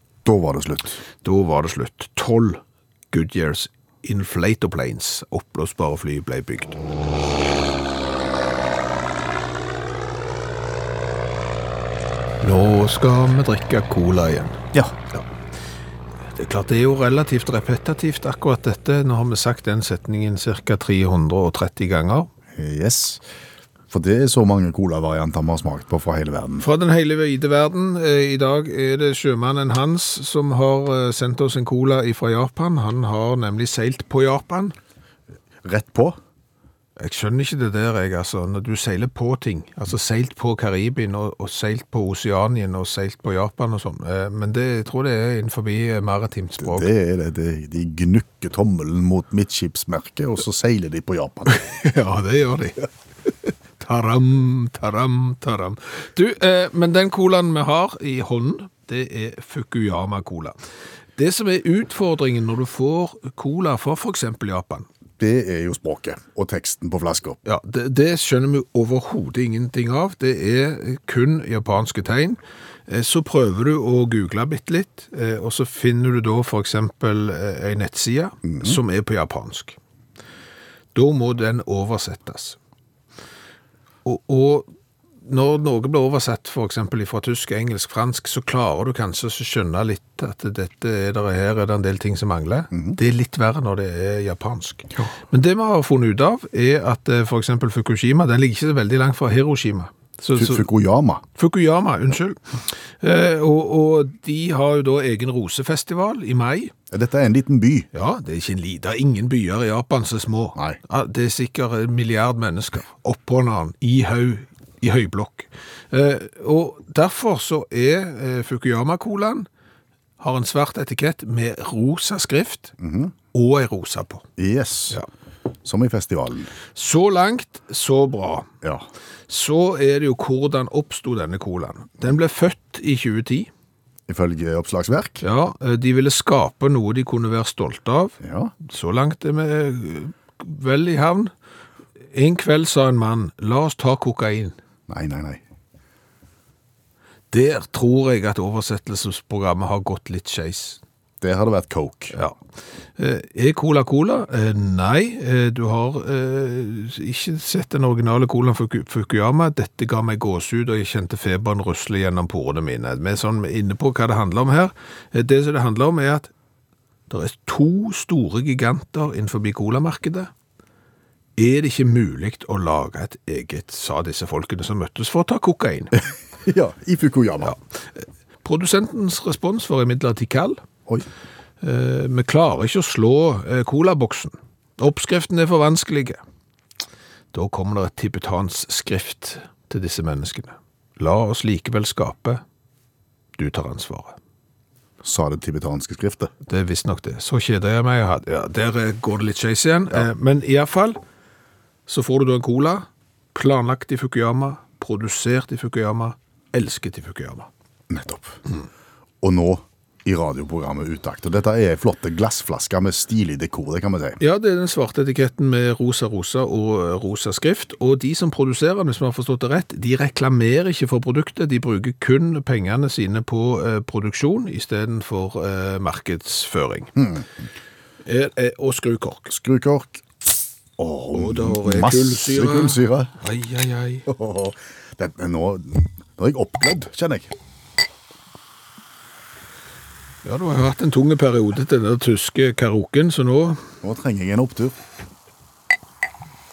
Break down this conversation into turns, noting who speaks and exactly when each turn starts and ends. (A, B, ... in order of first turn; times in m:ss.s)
0:00.2-0:01.0 A
0:01.2-0:02.6 B
0:03.1-0:06.8 B
0:12.4-0:14.6 B
0:16.3-0:22.3 B
0:22.5-0:23.2 A
0:23.9-0:26.6 A
0:26.6-0:34.7 B
0:35.6-0:36.2 A
0:37.0-0:46.9 B
0:46.6-0:51.5 A
0:51.5-0:52.9 B
0:53.4-1:00.6 B
1:01.2-1:04.9 B
1:05.2-1:07.4 A
1:07.4-1:19.8 B
1:18.5-1:18.8 A
1:20.9-1:22.6 B
1:24.0-1:24.7 B
1:25.2-1:40.6 B
1:32.7-1:33.0 A
1:40.4-1:41.2 A
1:41.4-1:46.7 B
1:46.9-1:47.9 A
1:47.9-1:59.5 B
2:00.2-2:02.7 B
2:02.8-2:03.1 A
2:03.3-2:04.2 B
2:04.4-2:05.0 A
2:05.6-2:06.5 A
2:06.7-2:08.5 B
2:09.3-2:13.5 B
2:14.1-2:15.2 A
2:15.2-2:21.3 B
2:18.2-2:18.5 A
2:22.1-2:24.6 B
2:24.9-2:25.4 A
2:27.3-2:30.8 B
2:31.2-2:32.1 A
2:33.0-2:46.3 B
2:47.1-2:50.3 B
2:51.4-2:56.0 B
2:56.4-2:57.5 A
2:57.4-3:00.6 B
3:01.6-3:06.2 B
3:07.3-3:12.4 B
3:13.4-3:14.2 B
3:15.0-3:16.3 A
3:16.5-3:21.0 B
3:21.9-3:27.5 B
3:27.9-3:28.4 A
3:29.2-3:34.2 A
3:34.2-3:46.9 B
3:47.0-3:47.3 A
3:48.0-3:49.3 B
3:49.3-3:50.0 A
3:50.8-3:53.1 A
3:51.1-3:54.0 B
3:54.1-3:57.3 A
4:00.2-4:03.6 B
4:03.8-4:04.8 A